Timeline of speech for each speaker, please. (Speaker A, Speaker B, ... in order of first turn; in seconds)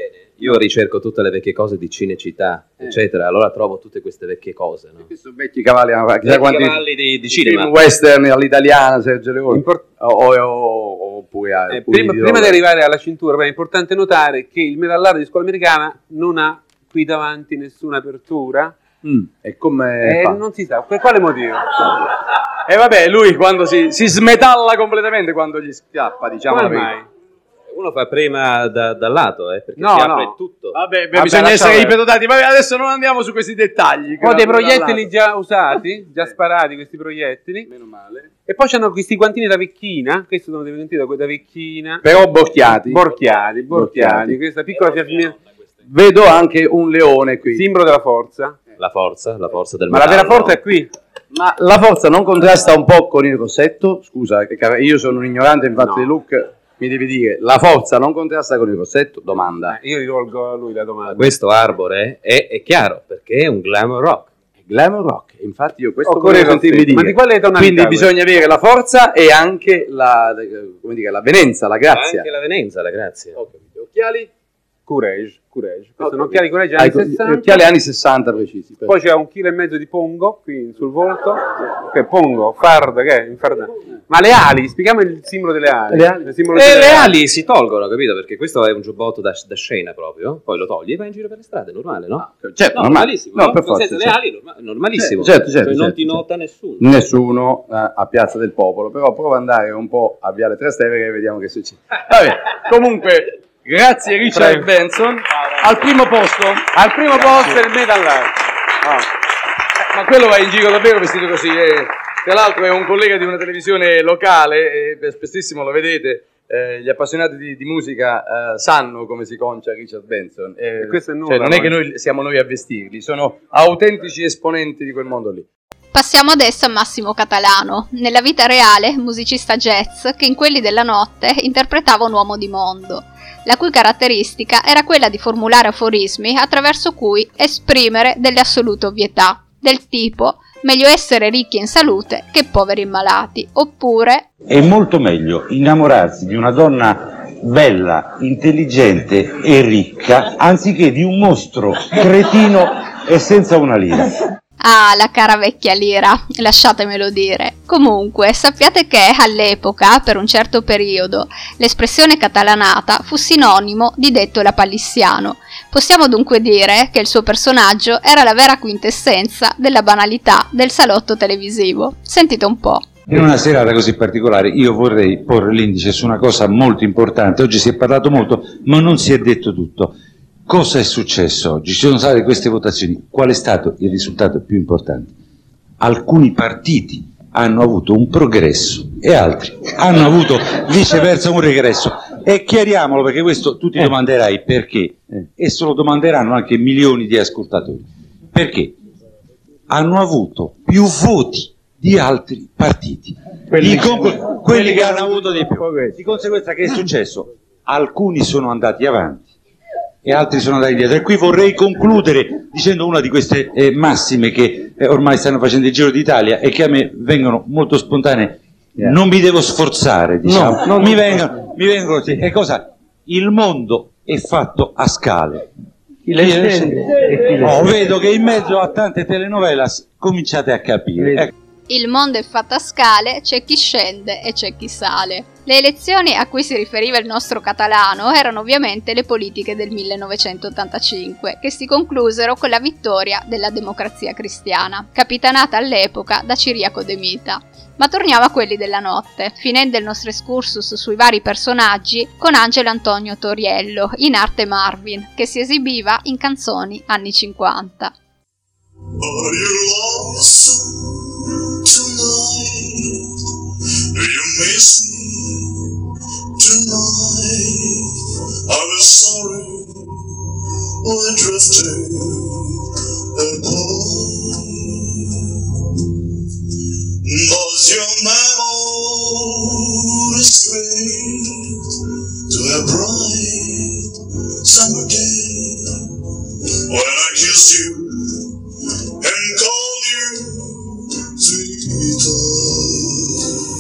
Speaker A: 0.3-5.1, 6.2-7.7, 27.7-30.8, 48.8-50.6, 61.1-64.3, 65.4-65.7, 66.2-66.6, 71.9-73.4, 86.5-96.8
Speaker B: 5.1-12.6, 19.0-20.4, 22.7-26.9, 30.7-35.1, 37.7-38.3, 42.0-44.4, 45.9-47.6, 49.9-50.8, 51.3-59.8, 64.7-72.3, 76.1-78.9, 86.7-87.1, 92.3-94.2, 95.0-96.2, 96.8-107.7, 109.9-125.5, 203.5-205.9, 220.2-221.2, 226.1-227.7, 231.0-231.3
Speaker C: 9.5-9.8, 11.7-18.8, 20.0-21.9, 26.5-27.1, 29.8-30.4, 31.1-32.0, 34.2-37.7, 38.5-42.0, 42.7-45.4, 47.5-48.6, 55.8-56.1, 59.7-61.3, 66.0-68.1, 74.0-74.2, 74.9-77.7, 78.8-87.2, 104.3-104.7, 106.8-108.3, 120.8-121.8
Speaker D: 125.9-144.3, 154.6-172.9, 231.7-257.9
Speaker E: 144.5-154.1, 173.1-180.0, 180.5-185.1, 185.8-198.8, 199.7-209.3, 210.0-225.4, 226.2-226.5, 227.4-231.3
Speaker F: 259.0-263.1, 263.9-265.7, 266.4-267.9, 268.5-269.9, 270.8-272.6, 273.2-275.2, 277.0-281.6, 282.3-283.9, 284.4-285.9, 286.7-288.4, 289.0-293.4